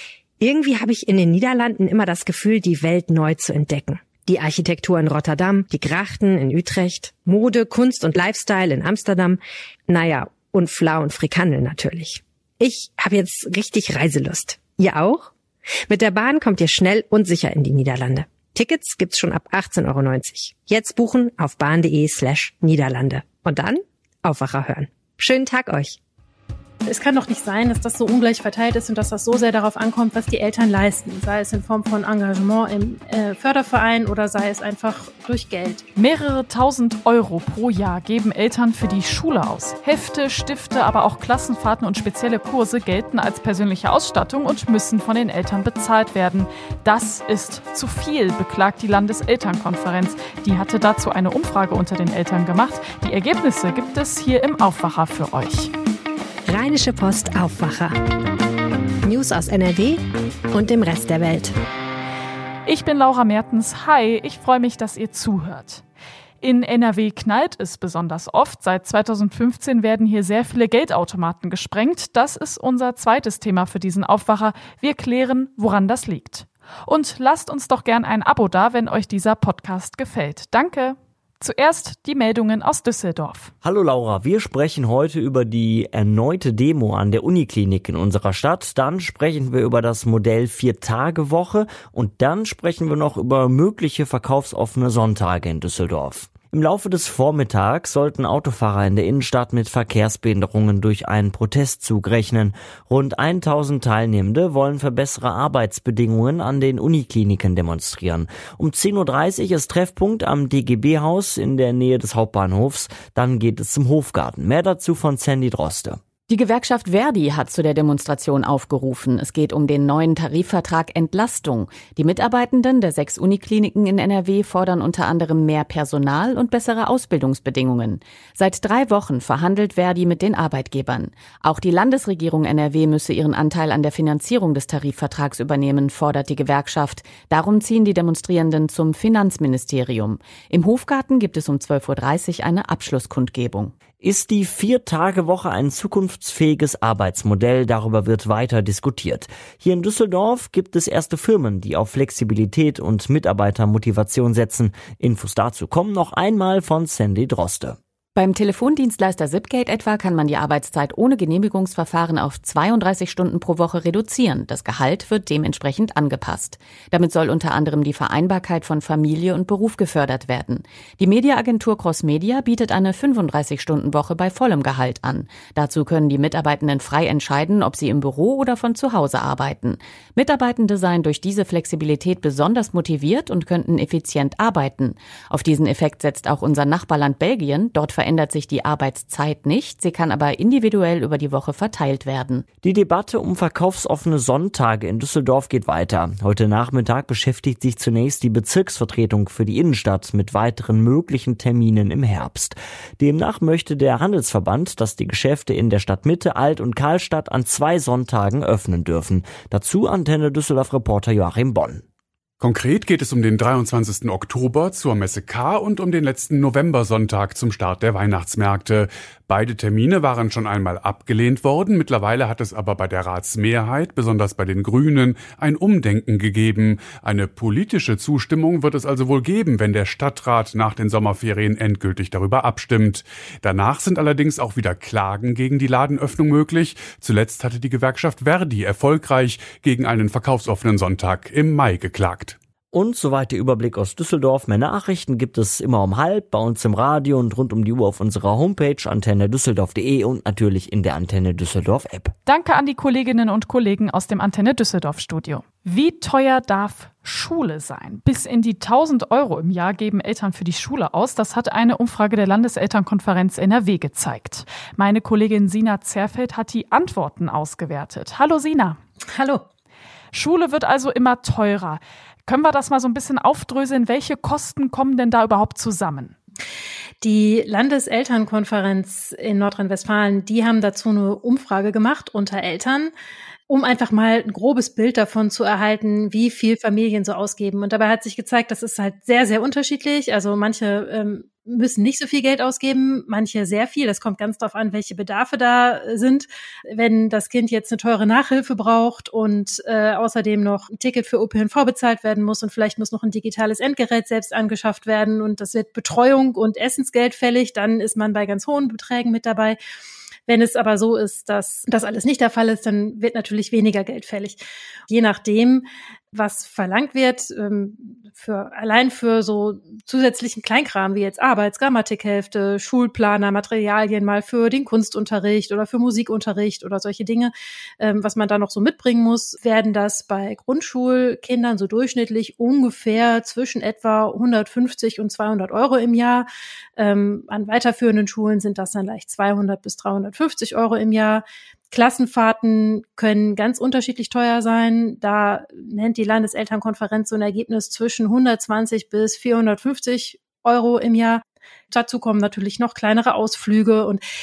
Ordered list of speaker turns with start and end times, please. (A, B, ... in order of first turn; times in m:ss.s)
0:00.4-0:15.3 A
0:15.9-0:26.0 A
0:26.9-0:35.8 B
0:36.0-0:55.7 C
0:56.5-0:58.0 A
0:59.0-1:00.0 A
1:00.5-1:01.6 A
1:02.6-1:05.8 C
1:06.4-1:23.5 C
1:23.6-1:56.0 D
1:56.3-2:23.7 E
2:24.0-2:37.8 D
2:38.2-3:12.4 E
3:12.6-3:31.8 D
3:32.4-4:02.4 F
4:02.7-4:12.1 D
4:12.3-4:28.8 C
4:29.2-4:29.4 B
4:30.1-4:36.2 C
4:37.0-4:42.9 B
4:43.5-5:09.6 B
5:10.3-5:54.0 B